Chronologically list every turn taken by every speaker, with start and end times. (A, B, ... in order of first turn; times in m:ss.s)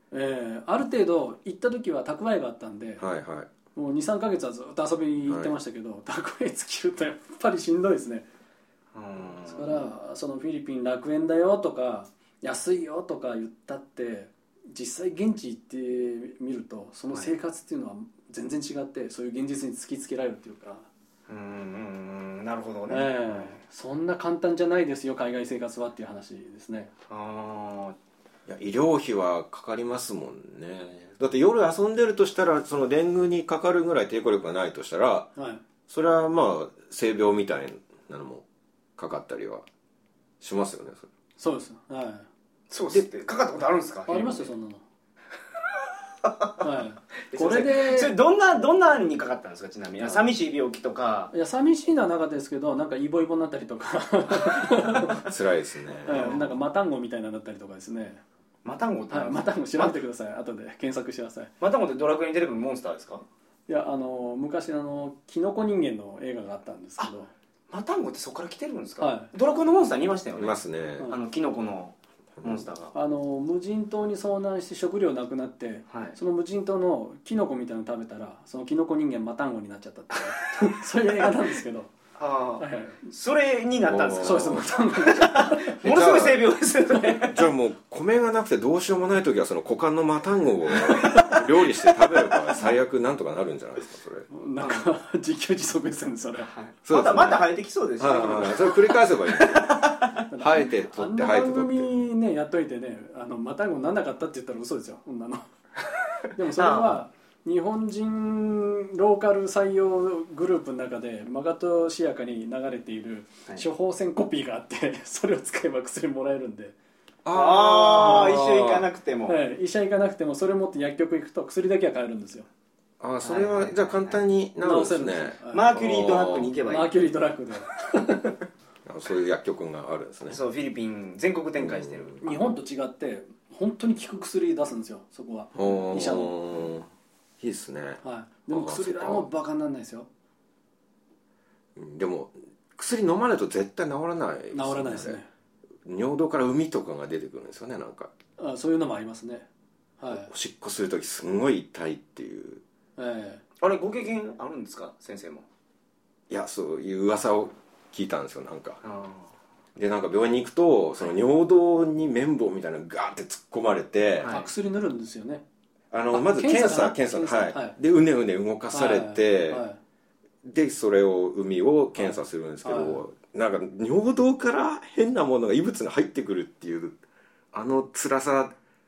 0:00.1-0:03.0 A
0:03.0-0:03.5 B
0:03.7-0:08.3 A
0:05.3-0:05.5 B
0:08.9-0:09.9 C
0:09.5-0:20.9 A
0:21.3-0:23.6 C
0:22.9-0:26.9 A
0:27.1-0:28.0 C
0:28.5-0:35.3 B
0:35.4-0:35.6 A
0:35.9-0:38.4 B
0:39.0-0:39.7 B
0:40.4-0:41.1 B
0:41.4-0:42.3 A
0:42.7-0:44.5 C
0:44.1-0:44.8 A
0:46.2-0:46.6 C
0:46.6-0:48.1 A
0:47.3-0:51.3 C
0:51.3-0:55.3 A
0:55.2-0:56.4 B
0:56.0-0:58.2 A
0:56.1-0:56.5 C
0:58.6-1:00.0 C
0:59.1-1:01.5 A
1:01.6-1:03.2 C
1:03.7-1:07.3 A
1:07.7-1:12.9 C
1:09.0-1:09.3 A
1:10.4-1:11.1 B
1:12.4-1:12.7 B
1:12.9-1:21.9 A
1:15.9-1:16.2 C
1:22.2-1:27.4 C
1:22.6-1:23.1 A
1:23.9-1:24.7 B
1:24.2-1:25.8 A
1:25.8-1:26.4 B
1:27.2-1:34.3 B
1:30.8-1:31.4 C
1:34.3-1:36.5 A
1:34.6-1:34.9 C
1:36.4-1:40.2 C
1:36.9-1:37.5 B
1:38.0-1:39.7 B
1:40.3-1:45.4 A
1:40.4-1:41.9 B
1:46.3-1:56.8 A
1:46.6-1:47.0 C
1:57.2-1:58.9 B
1:57.3-1:59.4 C
1:59.3-2:02.5 A
2:03.0-2:06.5 B
2:03.2-2:04.2 C
2:04.6-2:05.7 A
2:05.5-2:07.0 C
2:06.7-2:08.4 A
2:08.8-2:10.4 B
2:10.3-2:12.2 C
2:11.6-2:12.4 B
2:12.2-2:16.4 A
2:15.6-2:16.9 B
2:17.4-2:19.3 B
2:18.0-2:20.1 A
2:21.8-2:25.2 B
2:24.5-2:25.3 A
2:25.8-2:28.1 B
2:28.4-2:29.5 A
2:30.0-2:30.3 A
2:30.1-2:32.6 B
2:33.0-2:33.4 A
2:33.6-2:35.5 C
2:36.3-2:38.8 B
2:38.8-2:39.3 C
2:39.8-2:44.3 B
2:44.2-2:44.5 C
2:44.3-2:45.4 A
2:45.9-2:49.6 B
2:46.1-2:47.8 A
2:48.7-2:49.8 A
2:50.4-2:57.0 B
2:52.0-2:53.0 A
2:57.5-2:58.6 B